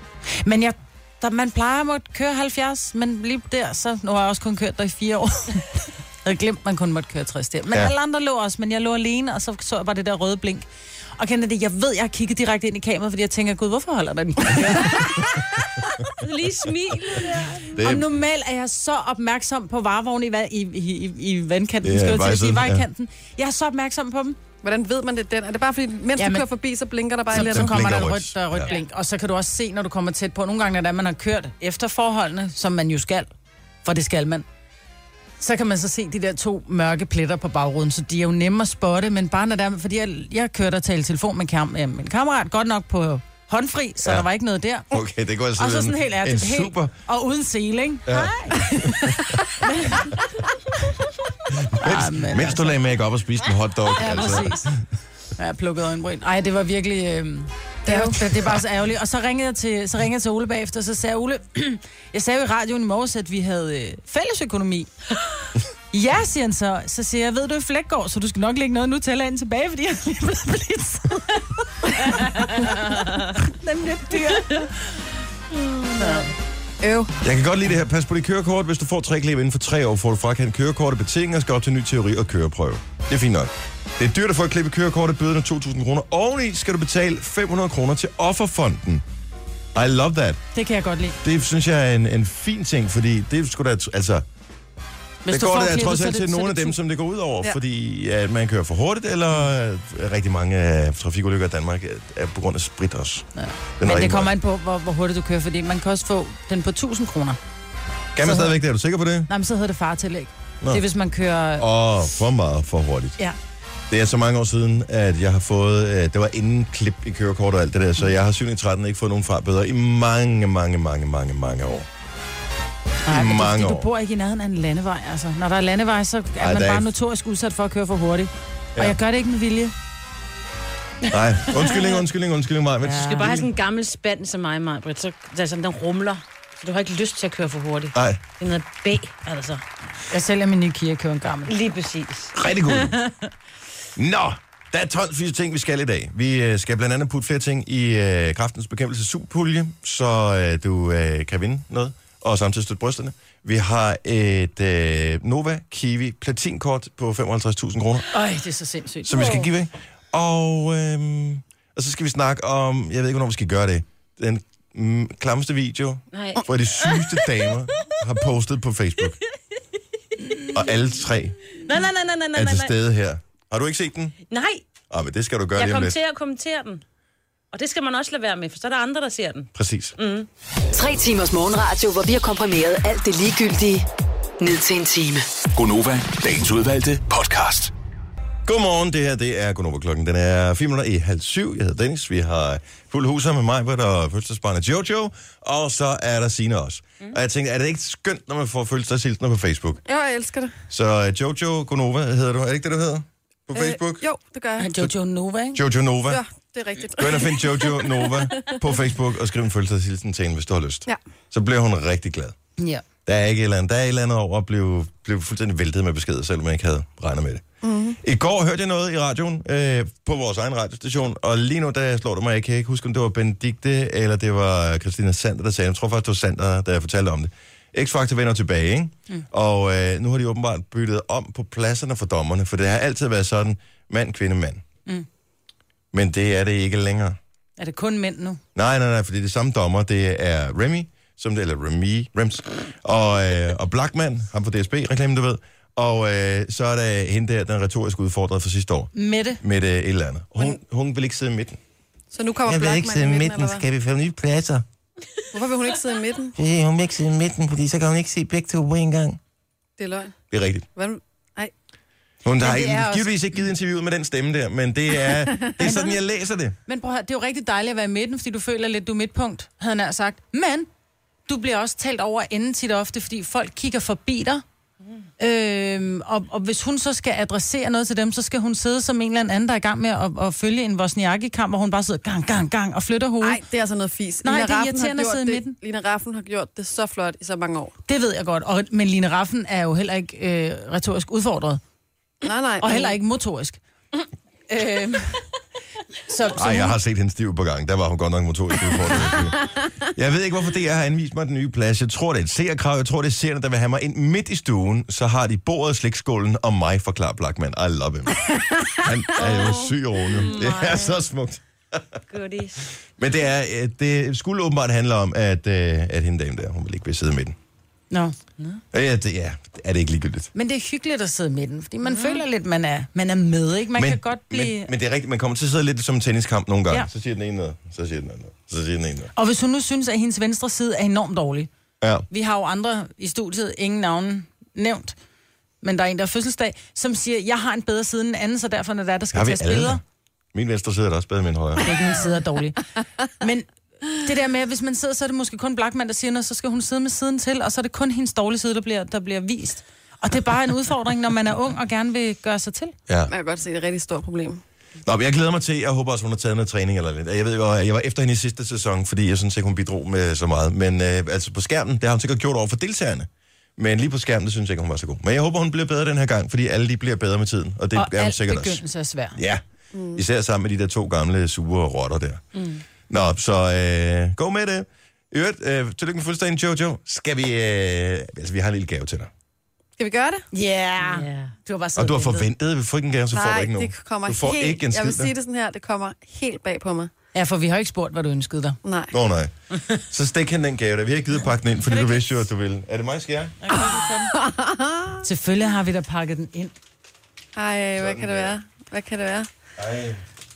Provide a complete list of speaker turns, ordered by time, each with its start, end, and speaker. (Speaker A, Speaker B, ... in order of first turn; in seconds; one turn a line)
Speaker A: 0.4-10.7
Speaker A: 11.2-15.5
Speaker B: 14.6-15.2
Speaker C: 16.2-17.6
Speaker B: 16.9-18.1
Speaker A: 17.7-24.4
Speaker B: 21.8-22.8
Speaker D: 24.6-27.8
Speaker A: 26.2-26.4
Speaker B: 27.3-28.7
Speaker A: 27.3-33.3
Speaker A: 33.8-34.4
Speaker A: 35.4-44.9
Speaker B: 44.9-46.9
Speaker A: 45.6-48.7
Speaker B: 48.1-49.4
Speaker A: 49.6-50.2
Speaker B: 51.5-54.8
Speaker A: 51.8-52.7
Speaker A: 54.0-54.6
Speaker A: 55.4-64.9
Speaker D: 57.9-58.5
Speaker A: 65.9-74.7
Speaker C: 75.6-76.2
Speaker A: 76.0-76.2
Speaker D: 76.8-77.1
Speaker B: 77.2-89.0
Speaker B: 89.7-90.4
Speaker A: 90.5-91.2
Speaker B: 91.2-94.2
Speaker A: 95.2-96.8
Speaker B: 95.3-104.3
Speaker A: 103.4-107.4
Speaker B: 108.1-109.3
Speaker A: 108.2-108.5
Speaker A: 109.3-111.7
Speaker B: 111.6-113.2
Speaker B: 113.9-121.9
Speaker A: 123.0-129.7
Speaker B: 123.1-123.9
Speaker B: 126.4-126.9
Speaker B: 131.1-133.5
Speaker C: 131.5-132.0
Speaker A: 132.8-133.3
Speaker C: 133.1-139.6
Speaker B: 137.9-138.2
Speaker A: 140.1-141.5
Speaker C: 141.5-143.2
Speaker B: 142.3-143.0
Speaker B: 143.9-158.1
Speaker A: 158.1-159.4
Speaker B: 159.0-169.2
Speaker C: 166.1-167.3
Speaker C: 170.3-170.5
Speaker B: 170.5-171.4
Speaker C: 171.6-172.7
Speaker B: 172.3-174.2
Speaker C: 174.3-174.6
Speaker B: 174.9-175.9
Speaker C: 175.6-176.8
Speaker C: 177.5-180.3
Speaker B: 179.5-179.9
Speaker E: 180.7-183.9
Speaker E: 184.4-185.2
Speaker F: 185.5-187.7
Speaker B: 188.4-199.8
Speaker D: 199.8-200.6
Speaker B: 200.7-204.1
Speaker D: 203.5-204.7
Speaker A: 204.6-205.6
Speaker B: 205.5-206.2
Speaker D: 206.1-208.6
Speaker B: 206.9-212.3
Speaker A: 212.6-212.8
Speaker B: 213.1-217.4
Speaker D: 217.6-218.0
Speaker B: 218.0-234.6
Speaker B: 235.9-237.2
Speaker A: 237.6-238.4
Speaker B: 238.5-251.6
Speaker A: 248.9-249.4
Speaker D: 252.1-253.6
Speaker B: 252.4-254.6
Speaker D: 255.3-256.4
Speaker B: 256.4-259.2
Speaker D: 259.8-260.1
Speaker B: 260.3-260.7
Speaker D: 260.7-261.5
Speaker B: 262.2-266.6
Speaker A: 262.4-263.1
Speaker D: 265.1-265.8
Speaker A: 266.7-270.7
Speaker A: 271.3-274.4
Speaker A: 275.2-283.4
Speaker D: 283.2-287.7
Speaker A: 284.2-285.6
Speaker A: 287.9-291.6
Speaker D: 292.2-292.9
Speaker A: 292.6-293.6
Speaker A: 294.5-295.2
Speaker A: 296.0-296.8
Speaker B: 296.3-299.4
Speaker D: 299.1-299.5
Speaker B: 299.9-312.0
Speaker C: 309.1-311.0
Speaker C: 312.1-312.7
Speaker B: 312.9-317.4
Speaker A: 317.9-318.1
Speaker B: 318.7-320.3
Speaker A: 320.3-324.7
Speaker C: 321.9-322.2
Speaker B: 323.7-329.1
Speaker A: 329.1-331.5
Speaker B: 331.8-332.1
Speaker A: 332.1-334.9
Speaker A: 335.6-339.8
Speaker B: 339.1-339.8
Speaker B: 340.3-341.7
Speaker A: 341.6-342.6
Speaker A: 343.2-352.7
Speaker D: 353.1-354.4
Speaker B: 354.8-368.6
Speaker A: 367.7-369.2
Speaker B: 369.1-369.4
Speaker D: 369.7-370.0
Speaker B: 369.9-372.2
Speaker B: 372.9-379.1
Speaker D: 379.8-380.2
Speaker A: 380.3-382.3
Speaker C: 380.8-381.3
Speaker B: 381.8-385.1
Speaker D: 383.1-386.9
Speaker A: 387.1-388.6
Speaker D: 388.6-388.9
Speaker B: 388.9-393.4
Speaker A: 391.7-392.1
Speaker C: 393.4-394.1
Speaker D: 393.7-395.0
Speaker A: 395.0-396.5
Speaker D: 397.4-399.3
Speaker B: 397.8-398.3
Speaker B: 399.6-400.0